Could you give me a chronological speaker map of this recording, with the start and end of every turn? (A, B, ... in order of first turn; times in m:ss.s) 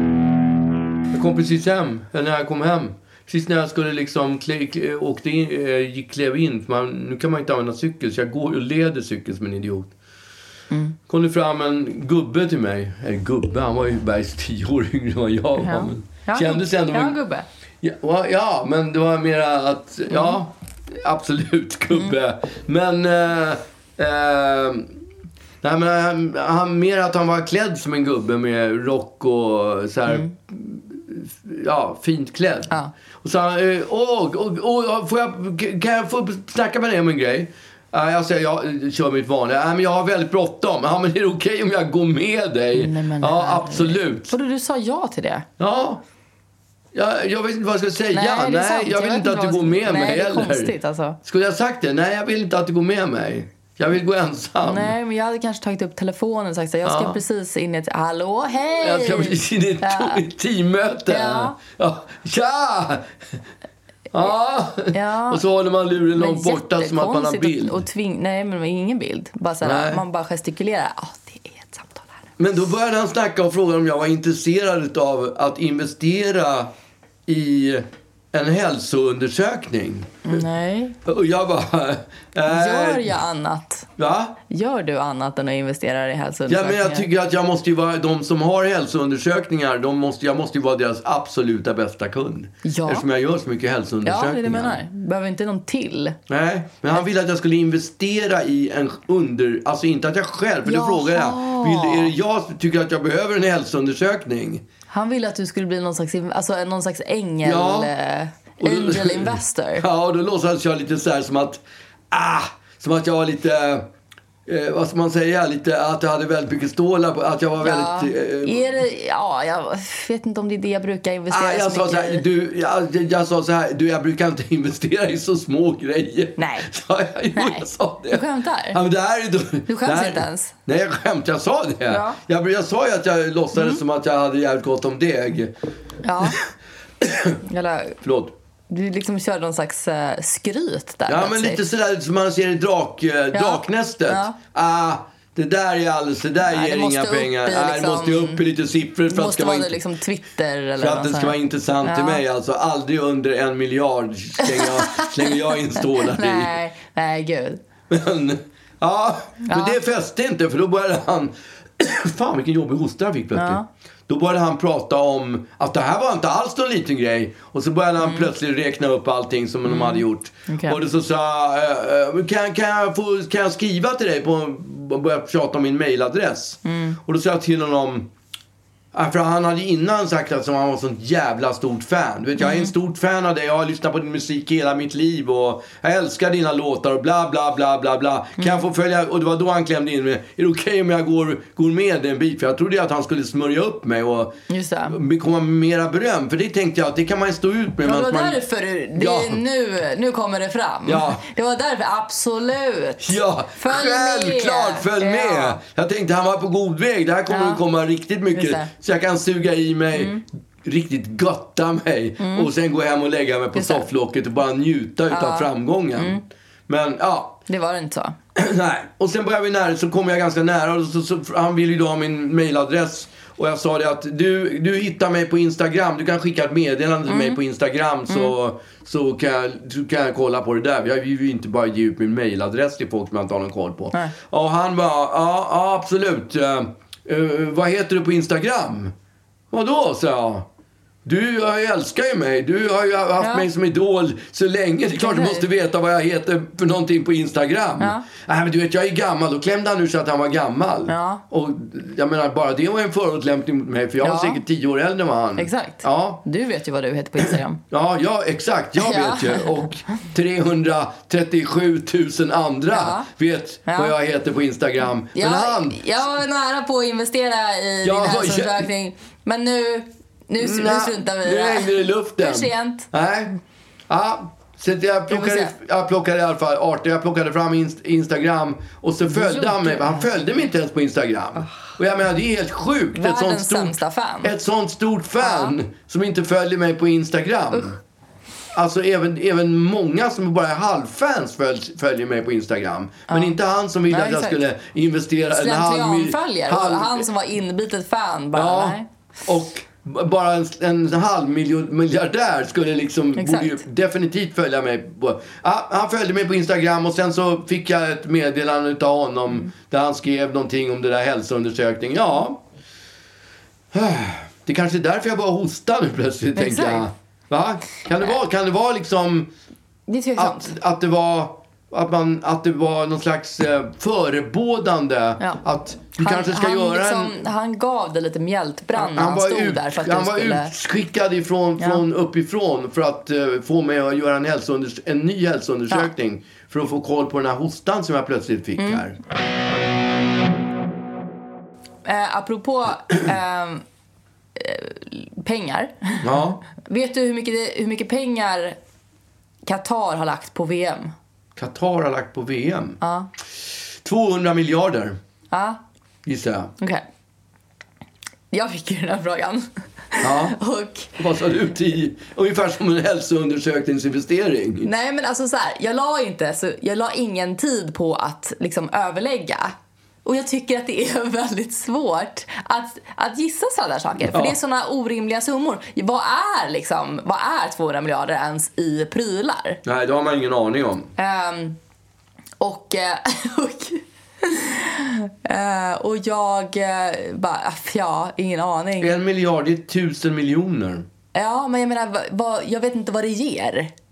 0:01.1-0:09.9 A
0:10.7-0:11.0 B
0:11.1-0:17.2 A
0:15.6-0:17.4 B
0:17.8-0:25.0 A
0:20.1-0:20.4 B
0:25.6-0:44.3 A
0:30.1-0:30.3 B
0:42.7-0:45.4 B
0:45.6-0:46.0 A
0:46.9-0:55.0 A
0:48.1-0:51.2 B
0:54.6-1:00.2 B
0:56.8-0:57.2 A
0:58.8-1:03.1 A
1:01.1-1:01.6 B
1:04.1-1:07.8 A
1:04.9-1:05.4 B
1:06.1-1:12.2 B
1:09.6-1:10.0 A
1:12.4-1:16.7 A
1:17.2-1:20.4 A
1:20.2-1:21.0 B
1:21.0-1:23.1 A
1:22.4-1:23.9 B
1:24.0-1:24.4 A
1:24.5-1:27.1 B
1:26.5-1:34.8 A
1:32.6-1:33.0 B
1:34.0-1:36.2 B
1:36.3-1:44.6 A
1:40.6-1:42.1 B
1:44.9-1:49.8 B
1:47.4-1:47.9 A
1:48.6-1:53.9 A
1:54.4-1:58.8 A
1:57.6-2:02.2 B
2:01.3-2:15.6 A
2:06.4-2:06.7 B
2:07.3-2:08.8 B
2:09.7-2:10.5 B
2:11.9-2:12.2 B
2:13.6-2:13.8 B
2:16.0-2:16.4 B
2:17.0-2:17.4 A
2:17.4-2:18.0 B
2:18.0-2:18.3 A
2:18.7-2:21.6 B
2:21.1-2:29.8 A
2:23.3-2:24.4 B
2:26.4-2:28.4 B
2:29.1-2:32.2 B
2:30.8-2:36.5 A
2:34.4-2:37.6 B
2:37.9-2:58.1 A
2:39.4-2:39.8 B
2:43.3-2:43.6 B
2:48.0-2:48.3 B
2:49.6-2:50.8 B
2:56.6-2:57.0 B
2:58.9-3:14.4 A
3:02.4-3:02.7 B
3:14.5-3:15.0 B
3:14.9-3:18.4 A
3:17.8-3:25.6 B
3:18.9-3:19.4 A
3:20.8-3:21.2 A
3:23.0-3:37.4 A
3:27.3-3:27.6 B
3:28.3-3:28.7 B
3:29.9-3:30.2 B
3:32.2-3:32.5 B
3:33.5-3:33.8 B
3:35.1-3:36.2 B
3:37.5-3:38.2 B
3:38.3-3:58.9 A
3:47.1-3:47.4 B
3:48.1-3:48.3 B
3:59.5-4:00.5 A
4:01.0-4:16.2 A
4:03.2-4:03.5 B
4:05.0-4:05.4 B
4:07.8-4:08.0 B
4:10.9-4:11.2 B
4:14.0-4:14.4 B
4:15.4-4:17.6 B
4:17.7-4:25.9 A
4:18.8-4:19.6 B
4:22.7-4:23.1 B
4:23.7-4:23.9 B
4:25.1-4:32.9 B
4:27.8-4:28.7 A
4:30.4-4:33.3 A
4:33.9-4:47.8 A
4:35.1-4:35.5 B
4:39.1-4:40.1 B
4:42.9-4:44.3 B
4:45.2-4:45.5 B
4:48.5-4:57.1 A
4:53.1-4:53.4 B
4:53.9-4:54.4 B
4:55.3-4:58.8 B
4:58.3-5:12.4 A
5:03.2-5:03.6 B
5:13.7-5:19.3 A
5:16.4-5:16.9 B
5:19.9-5:20.5 B
5:20.2-5:27.2 A
5:26.0-5:30.5 B
5:28.7-5:39.0 A
5:38.6-5:38.8 B
5:41.8-5:43.6 B
5:44.4-5:48.6 B
5:46.0-5:46.4 A
5:49.4-5:50.9 B
5:51.4-5:52.8 A
5:52.8-5:53.1 B
5:53.8-5:55.0 A
5:55.3-5:55.6 B
5:56.0-5:56.5 A
5:58.3-6:01.0 B
6:00.0-6:00.4 A
6:01.0-6:04.7 A
6:04.6-6:19.6 B
6:14.1-6:14.4 A
6:19.6-6:20.9 A
6:21.0-6:21.6 B
6:22.4-6:29.0 B
6:28.8-6:30.9 A
6:31.1-6:33.7 B